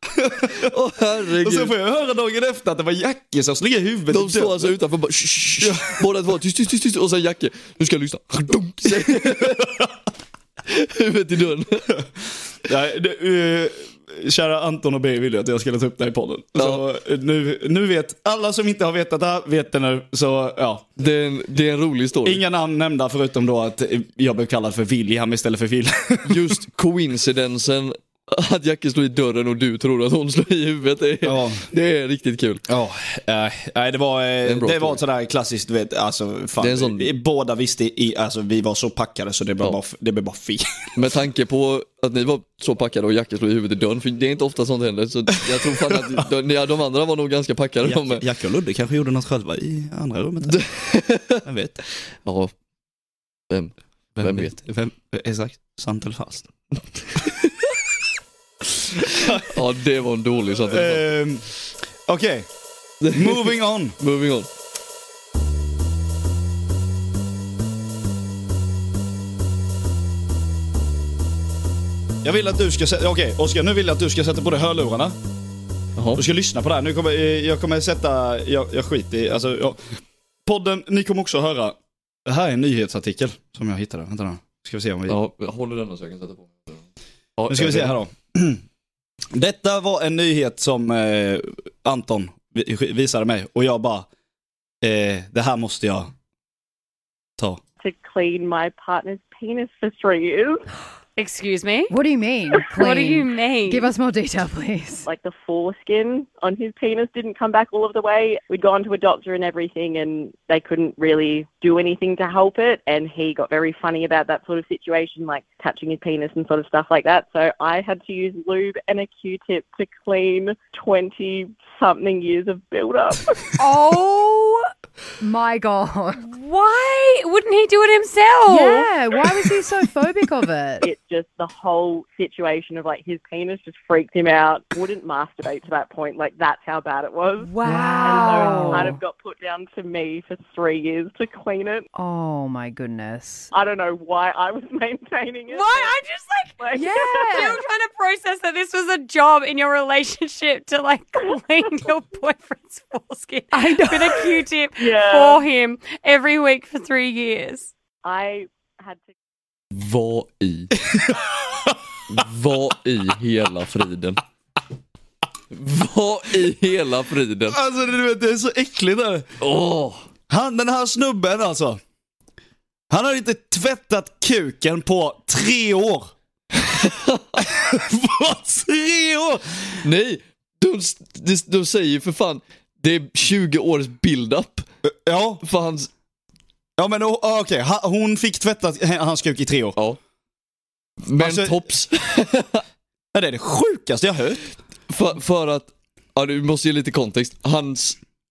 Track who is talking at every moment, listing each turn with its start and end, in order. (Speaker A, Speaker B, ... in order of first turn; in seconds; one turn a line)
Speaker A: 0.2-0.7
Speaker B: 0.4-1.7
Speaker A: 1.4-4.8
Speaker B: 4.1-9.7
Speaker A: 5.6-6.0
Speaker A: 9.0-9.8
Speaker B: 10.7-11.9
Speaker A: 12.6-20.9
Speaker B: 16.6-16.8
Speaker B: 21.0-22.4
Speaker A: 22.2-26.5
Speaker B: 26.2-32.6
Speaker A: 31.2-31.7
Speaker A: 32.7-40.9
Speaker B: 34.4-35.0
Speaker B: 36.6-37.1
Speaker B: 40.9-48.2
Speaker A: 47.8-50.6
Speaker B: 50.4-51.4
Speaker A: 51.4-51.8
Speaker B: 52.2-52.5
Speaker B: 53.5-54.5
Speaker A: 54.1-56.5
Speaker B: 57.1-57.7
Speaker A: 59.1-59.5
Speaker B: 59.3-61.2
Speaker A: 60.7-61.5
Speaker A: 62.1-62.5
Speaker B: 63.0-64.5
Speaker A: 63.1-64.0
Speaker A: 72.2-75.2
Speaker B: 76.0-76.2
Speaker A: 76.1-79.8
Speaker A: 80.5-85.2
Speaker B: 85.1-86.8
Speaker B: 87.4-88.0
Speaker A: 87.5-88.6
Speaker A: 89.3-94.1
Speaker A: 94.8-96.1
Speaker C: 97.8-100.6
Speaker D: 101.2-101.9
Speaker E: 101.9-105.1
Speaker D: 102.6-103.9
Speaker C: 105.1-123.6
Speaker E: 123.6-124.7
Speaker E: 125.2-126.2
Speaker D: 126.2-129.2
Speaker E: 128.5-130.9
Speaker C: 130.8-141.9
Speaker E: 137.4-139.0
Speaker D: 137.6-138.9
Speaker E: 141.9-143.5
Speaker C: 143.5-146.0
Speaker D: 145.5-146.6
Speaker C: 146.6-147.6
Speaker E: 146.7-147.6
Speaker D: 147.1-157.7
Speaker E: 153.5-154.3
Speaker C: 154.8-155.4
Speaker C: 158.0-159.1
Speaker B: 159.7-160.7
Speaker A: 160.9-161.7
Speaker B: 162.1-164.2
Speaker B: 165.5-167.6
Speaker A: 167.5-169.3
Speaker B: 169.4-170.0
Speaker A: 170.3-171.8
Speaker A: 172.9-176.1
Speaker B: 176.6-177.4
Speaker A: 177.4-179.8
Speaker B: 179.8-184.7
Speaker A: 184.8-185.4
Speaker B: 185.4-185.9
Speaker A: 186.8-189.8
Speaker B: 191.0-192.6
Speaker A: 191.2-191.6
Speaker A: 193.1-194.4
Speaker B: 194.9-198.0